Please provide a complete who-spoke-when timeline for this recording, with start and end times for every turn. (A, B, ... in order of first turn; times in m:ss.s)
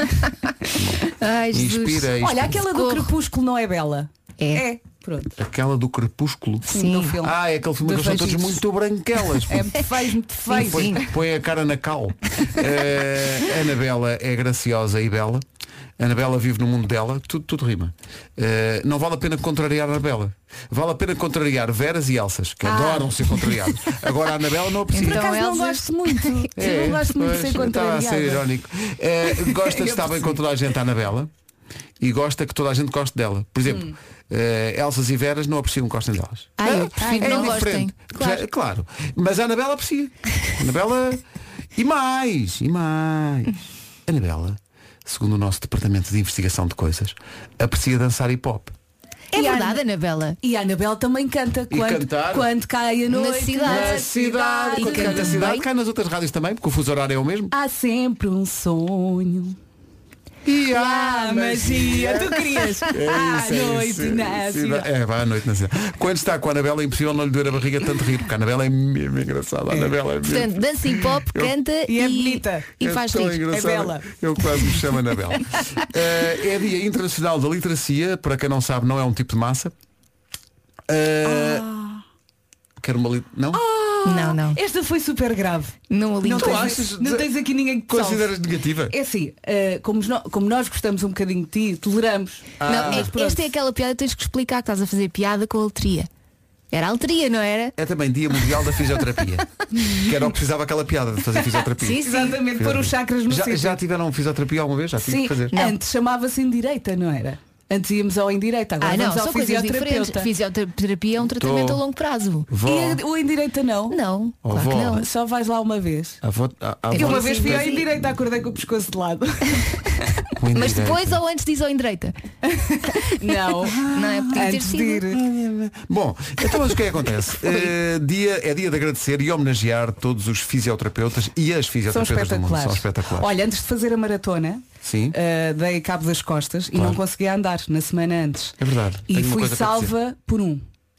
0:00.8-0:02.6 A
0:01.2-0:03.1 B
0:02.2-0:05.3 C
0:04.4-0:04.7 B
0:05.4-0:06.7 A
0:06.7-0:08.6 C
0:06.7-0:07.1 B
0:07.2-0:09.7 A
0:09.5-0:11.0 C
0:10.5-0:15.4 A
0:10.5-0:10.9 B
0:16.0-0:25.3 A
0:22.6-0:23.5 C
0:24.9-0:26.4 B
0:25.0-0:28.4 C
0:26.6-0:31.3 A
0:29.4-0:30.3 C
0:32.0-0:41.2 A
0:33.7-0:33.9 C
0:36.6-0:38.4 B
0:37.0-0:37.6 C
0:41.8-0:48.7 A
0:49.3-0:49.8 C
0:49.3-0:50.4 B
0:50.4-0:55.5 C
0:51.7-0:52.5 A
0:53.1-0:54.1 B
0:53.6-0:57.5 A
0:54.8-0:55.6 B
0:57.5-0:59.6 C
1:00.4-1:02.2 A
1:00.7-1:04.9 C
1:02.9-1:11.5 A
1:10.2-1:13.4 B
1:11.9-1:12.8 C
1:12.8-1:19.7 A
1:13.3-1:14.1 C
1:20.9-1:21.6 A
1:21.3-1:21.8 C
1:22.8-1:23.6 A
1:23.5-1:28.2 C
1:24.0-1:24.6 B
1:25.9-1:26.8 B
1:26.3-1:27.3 A
1:27.9-1:28.9 A
1:28.9-1:33.5 C
1:32.6-1:33.1 A
1:32.6-1:36.1 B
1:36.7-1:37.7 B
1:37.8-1:45.5 A
1:41.8-1:42.3 B
1:42.0-1:43.8 C
1:45.0-1:50.3 C
1:45.5-1:45.8 B
1:48.8-1:52.5 B
1:51.4-1:51.8 A
1:52.5-1:53.0 A
1:52.6-1:54.0 C
1:53.9-1:55.0 B
1:54.4-1:55.0 A
1:54.9-1:56.2 C
1:56.2-1:57.8 A
1:56.9-1:57.8 B
1:56.9-2:00.1 C
2:00.4-2:01.2 A
2:00.5-2:02.1 B
2:02.4-2:05.2 C
2:03.8-2:05.0 B
2:03.9-2:04.4 A
2:05.1-2:13.3 A
2:11.9-2:20.6 C
2:14.8-2:15.2 A
2:16.7-2:17.0 A
2:18.6-2:19.9 A